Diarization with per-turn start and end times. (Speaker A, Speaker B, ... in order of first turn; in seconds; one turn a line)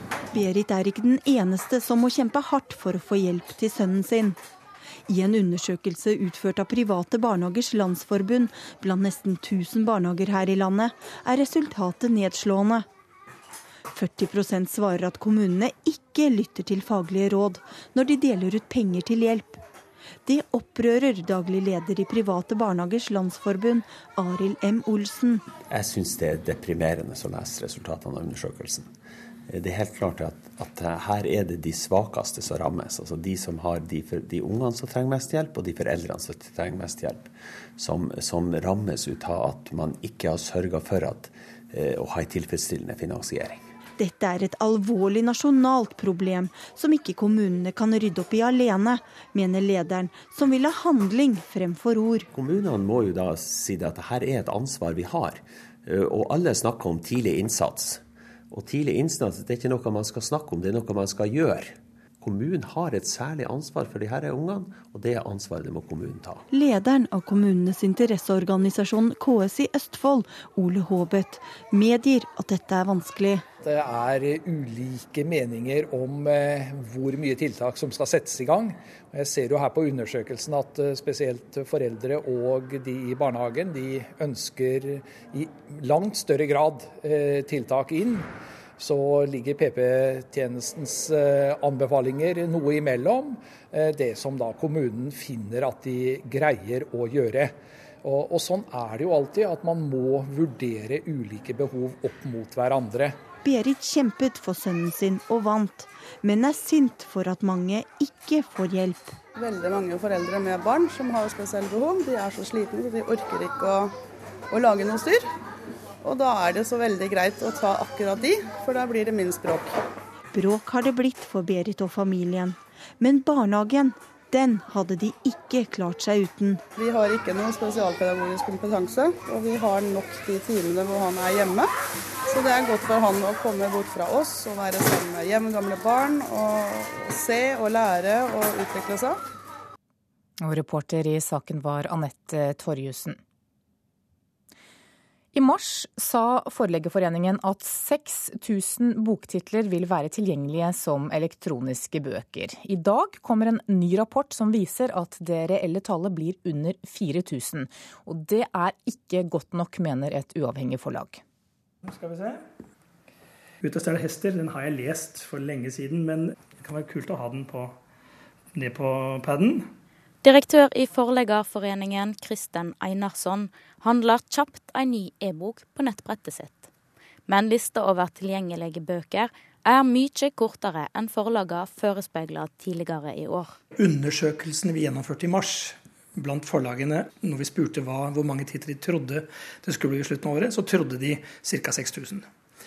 Speaker A: 0.3-4.4
Speaker A: 5.1-12.9
Speaker A: 13.9-19.6
Speaker A: 20.2-25.4
Speaker B: 25.7-28.9
Speaker B: 29.5-43.6
Speaker A: 44.0-52.3
Speaker B: 52.3-66.5
Speaker A: 66.5-73.4
Speaker C: 73.6-103.2
Speaker A: 103.4-109.2
Speaker D: 109.4-113.9
Speaker D: 114.5-115.2
Speaker D: 116.0-119.8
Speaker A: 120.3-126.6
Speaker D: 126.8-131.7
Speaker D: 132.3-139.2
Speaker E: 140.4-143.2
Speaker E: 145.3-161.2
Speaker F: 161.8-162.4
Speaker F: 163.6-167.8
Speaker F: 168.6-169.7
Speaker G: 170.2-176.7
Speaker G: 177.3-183.6
Speaker F: 183.8-192.3